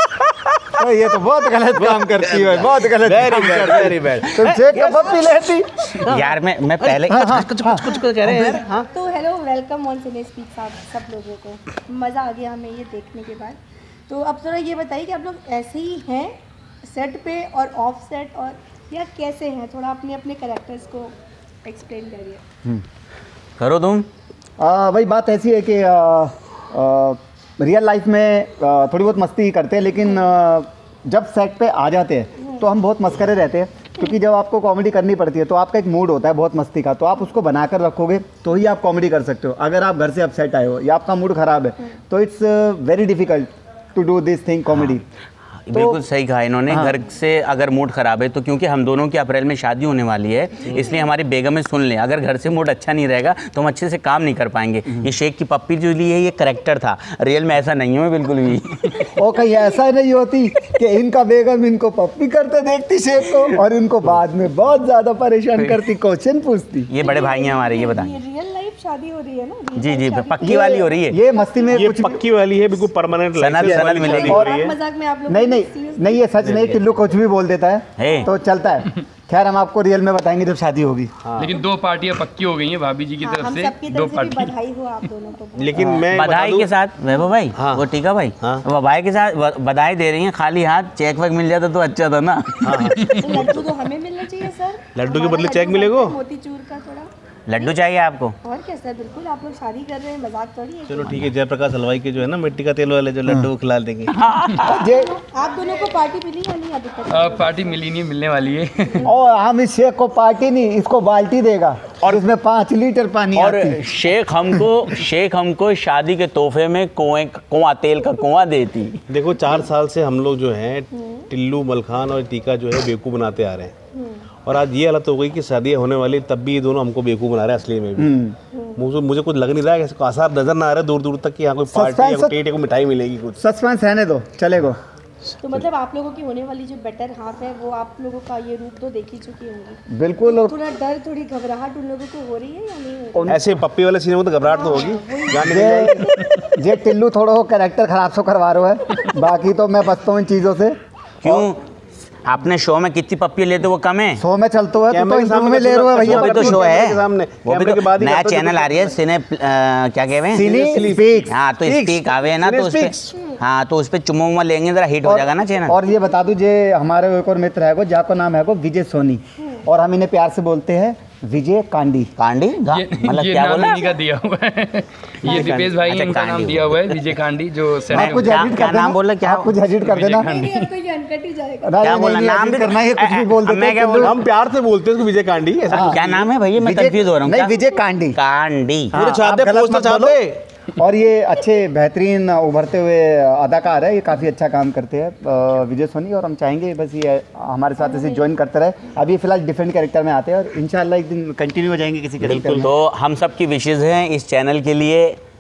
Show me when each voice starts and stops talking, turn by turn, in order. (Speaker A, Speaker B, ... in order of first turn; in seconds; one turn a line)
Speaker A: 0.7-6.0
Speaker B: 1.8-5.1
Speaker B: 6.0-8.9
Speaker C: 6.1-7.2
Speaker A: 7.1-8.6
Speaker D: 8.9-21.1
Speaker D: 21.6-22.4
Speaker C: 23.6-24.1
Speaker A: 24.6-45.0
Speaker C: 45.7-59.1
Speaker A: 45.7-46.0
Speaker A: 46.7-47.0
Speaker A: 59.2-66.9
Speaker C: 66.9-68.2
Speaker D: 67.0-71.8
Speaker C: 69.8-71.2
Speaker A: 70.4-72.2
Speaker B: 71.7-74.8
Speaker C: 73.4-74.3
Speaker A: 73.6-74.6
Speaker D: 74.3-76.3
Speaker A: 75.3-81.1
Speaker B: 76.4-77.0
Speaker C: 78.0-78.3
Speaker B: 81.2-81.5
Speaker E: 81.4-84.5
Speaker D: 83.2-85.9
Speaker B: 85.6-86.7
Speaker C: 86.1-93.2
Speaker B: 87.5-88.7
Speaker B: 92.6-93.0
Speaker E: 93.0-93.5
Speaker D: 93.1-97.7
Speaker B: 95.0-96.2
Speaker C: 97.5-98.3
Speaker D: 98.4-101.2
Speaker B: 100.9-104.2
Speaker C: 104.1-104.8
Speaker D: 104.6-107.8
Speaker A: 104.6-105.1
Speaker E: 107.1-109.1
Speaker A: 109.1-113.8
Speaker C: 113.4-119.0
Speaker B: 119.1-123.8
Speaker D: 121.0-121.2
Speaker D: 123.9-124.2
Speaker B: 124.5-128.1
Speaker A: 128.0-128.4
Speaker D: 128.5-128.8
Speaker B: 128.8-133.4
Speaker A: 131.7-132.3
Speaker A: 133.4-134.8
Speaker D: 135.4-143.4
Speaker A: 139.9-140.6
Speaker A: 143.2-143.5
Speaker B: 143.3-146.0
Speaker D: 144.4-146.5
Speaker A: 145.3-151.5
Speaker C: 151.2-151.6
Speaker C: 152.2-154.2
Speaker A: 154.2-156.7
Speaker B: 154.9-159.0
Speaker C: 156.5-160.5
Speaker A: 160.3-161.4
Speaker B: 160.3-163.2
Speaker C: 161.3-165.8
Speaker A: 165.0-172.1
Speaker C: 172.2-173.9
Speaker E: 172.6-178.5
Speaker B: 175.2-175.8
Speaker C: 175.9-177.0
Speaker A: 177.9-180.3
Speaker C: 177.9-179.6
Speaker E: 179.8-180.7
Speaker D: 180.2-181.8
Speaker A: 181.6-184.2
Speaker C: 181.8-184.1
Speaker B: 184.0-186.3
Speaker C: 185.7-187.5
Speaker A: 185.7-186.1
Speaker A: 186.6-188.2
Speaker C: 188.2-188.9
Speaker A: 188.9-190.2
Speaker B: 188.9-190.4
Speaker A: 190.8-202.7
Speaker B: 202.2-202.7
Speaker C: 202.7-205.2